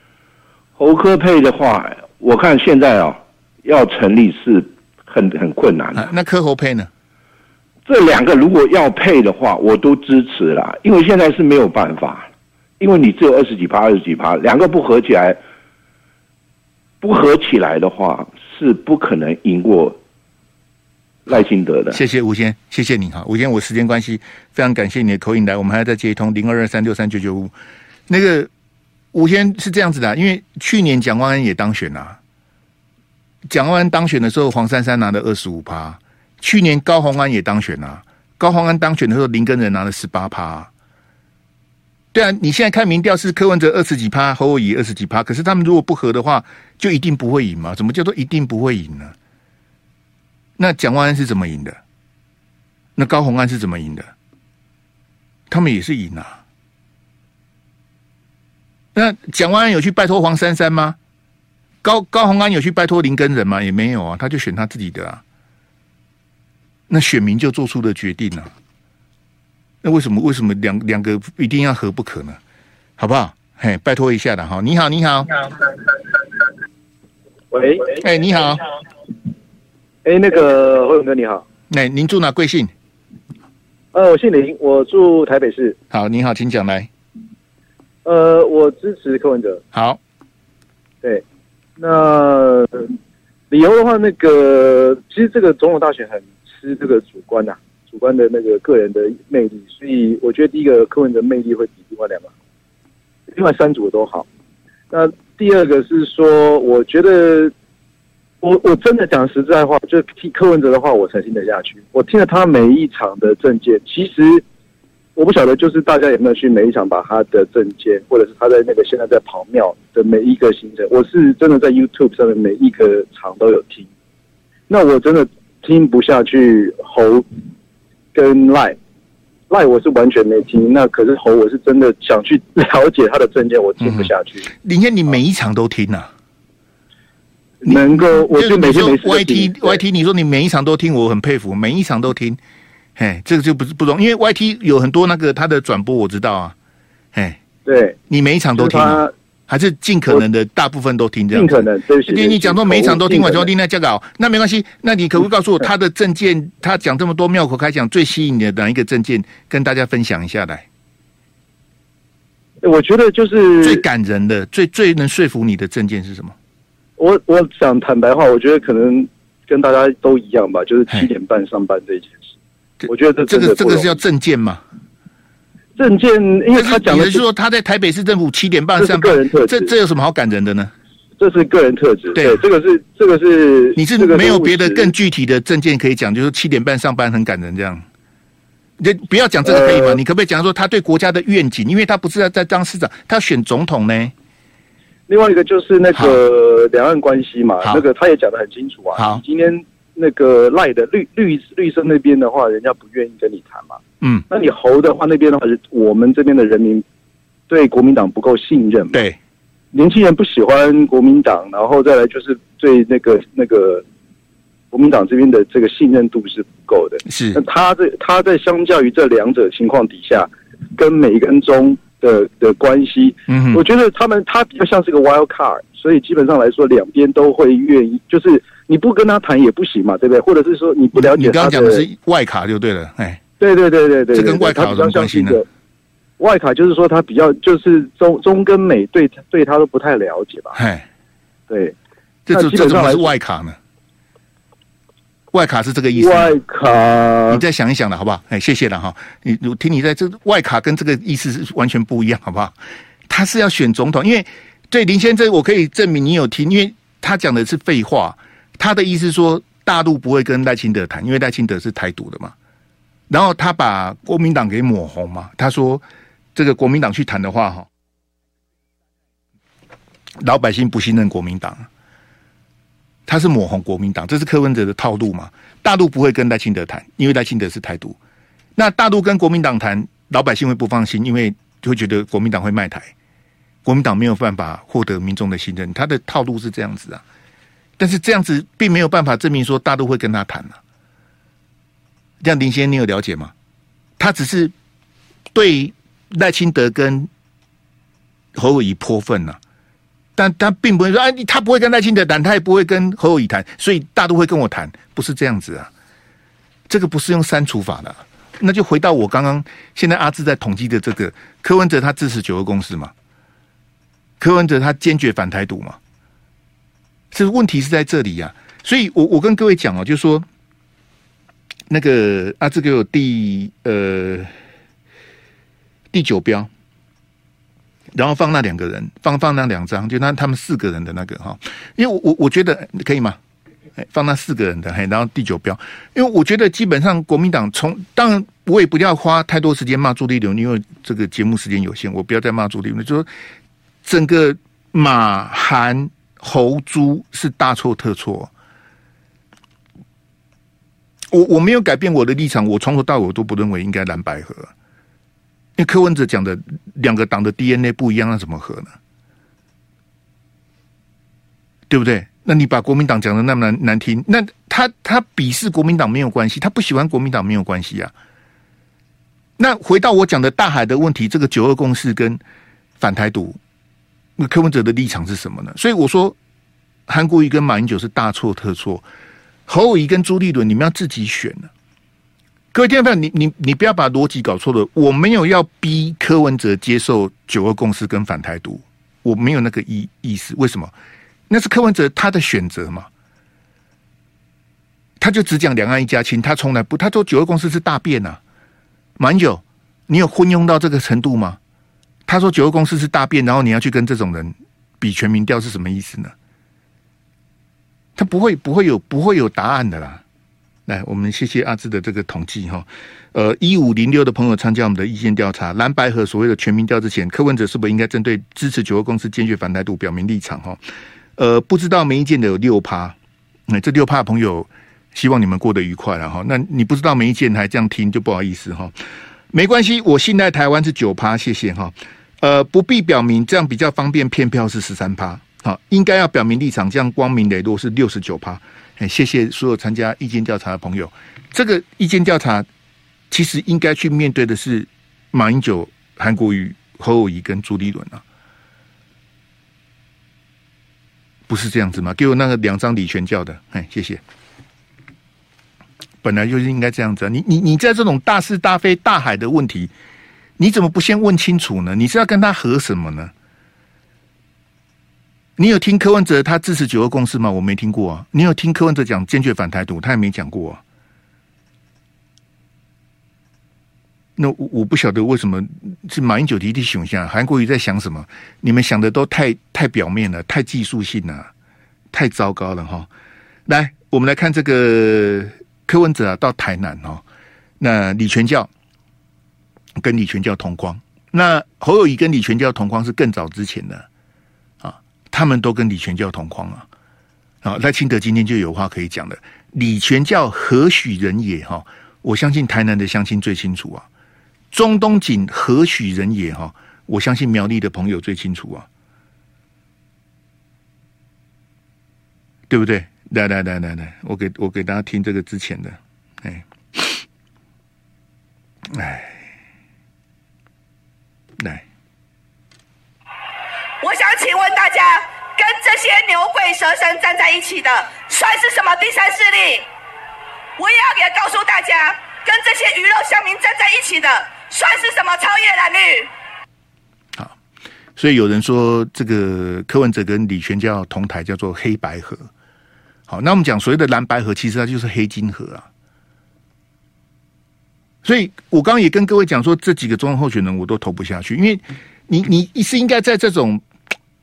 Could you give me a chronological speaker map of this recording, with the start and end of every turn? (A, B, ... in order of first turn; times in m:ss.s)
0:00.8-0:06.1 A
0:06.0-0:06.9 B
0:07.9-0:15.4 A
0:17.0-0:20.0 A
0:21.3-0:22.0 A
0:21.9-0:27.5 B
0:28.1-0:28.5 B
0:29.1-0:32.2 B
0:33.5-0:40.7 B
0:42.1-0:49.1 B
0:50.6-0:51.8 B
0:53.0-0:54.1 B
0:55.5-0:56.4 B
0:59.0-1:01.0 B
1:01.8-1:05.2 B
1:06.9-1:08.5 B
1:09.8-1:12.4 B
1:13.0-1:15.4 B
1:17.5-1:18.0 C
1:18.0-1:18.6 B
1:20.0-1:21.4 C
1:21.7-1:22.7 B
1:23.9-1:25.8 C
1:25.9-1:26.9 B
1:28.0-1:29.6 C
1:29.7-1:30.0 B
1:31.8-1:32.9 C
1:33.5-1:42.3 C
1:43.3-1:44.3 C
1:44.9-1:47.5 C
1:48.4-1:54.4 C
1:55.2-2:03.9 C
2:04.7-2:07.3 C
2:08.1-2:08.8 C
2:09.5-2:14.5 C
2:13.8-2:16.1 B
2:17.6-2:19.8 C
2:17.7-2:22.4 B
2:23.0-2:26.6 B
2:27.1-2:27.4 B
2:27.7-2:28.0 C
2:28.1-2:40.7 B
2:28.6-2:29.1 C
2:31.3-2:33.5 C
2:42.6-2:43.8 C
2:43.6-2:46.4 B
2:47.0-2:52.4 C
2:52.8-2:54.6 B
2:52.9-2:54.0 C
2:55.8-2:57.2 C
2:56.6-3:00.7 B
2:58.8-2:59.7 C
3:01.2-3:04.9 C
3:02.1-3:02.4 B
3:03.8-3:07.8 B
3:08.8-3:14.1 B
3:09.4-3:10.0 C
3:15.1-3:26.8 C
3:15.9-3:16.2 B
3:19.0-3:19.2 B
3:27.5-3:29.0 C
3:28.9-3:29.2 B
3:29.7-3:33.8 C
3:34.7-3:51.8 C
3:37.0-3:37.4 B
3:43.3-3:43.6 B
3:51.0-3:53.2 B
3:53.4-3:55.4 C
3:54.1-3:55.4 B
3:56.2-4:00.6 C
4:00.6-4:00.9 B
4:01.5-4:01.8 C
4:02.3-4:03.6 B
4:02.3-4:03.1 C
4:05.3-4:06.4 B
4:06.0-4:07.4 C
4:07.3-4:12.6 B
4:13.1-4:22.4 B
4:23.1-4:27.7 B
4:30.2-4:31.7 B
4:33.1-4:38.0 B
4:38.6-4:42.9 B
4:43.6-4:47.0 B
4:47.8-4:50.6 B
4:52.2-4:53.3 B
4:54.0-4:54.5 B
4:55.3-4:57.1 B
4:58.4-4:59.4 B
5:00.2-5:05.7 B
5:06.7-5:12.9 B
5:14.2-5:15.8 B
5:17.1-5:20.3 B
5:21.7-5:24.3 B
5:25.9-5:26.5 B
5:27.9-5:33.2 B
5:33.8-5:43.1 B
5:43.8-5:48.3 B
5:51.1-5:54.5 B
5:55.6-5:58.7 B
6:01.7-6:07.9 B
6:09.4-6:12.2 B
6:12.8-6:13.4 B
6:14.2-6:16.2 B
6:16.9-6:18.9 B
6:19.5-6:21.5 B
6:22.5-6:30.7 B
6:31.3-6:32.9 B
6:35.0-6:38.2 B
6:39.0-6:41.4 B
6:42.0-6:46.1 B
6:48.0-6:50.0 B
6:50.7-7:00.6 B
7:01.2-7:03.0 B
7:03.5-7:08.8 B
7:09.3-7:22.5 B
7:23.1-7:28.0 B
7:31.3-7:34.0 B
7:36.0-7:39.7 B
7:40.4-7:43.1 B
7:45.4-7:50.6 B
7:54.2-8:01.3 B
8:01.9-8:02.9 B
8:03.4-8:07.0 B
8:07.6-8:08.5 B
8:09.8-8:13.9 B
8:14.6-8:16.7 B
8:17.4-8:23.9 B
8:24.5-8:28.7 B
8:32.5-8:37.0 B
8:38.7-8:39.2 B
8:41.4-8:41.6 B
8:43.8-8:49.7 D
8:50.6-8:56.1 D
8:58.0-9:02.3 B
9:03.1-9:05.7 B
9:08.0-9:13.6 B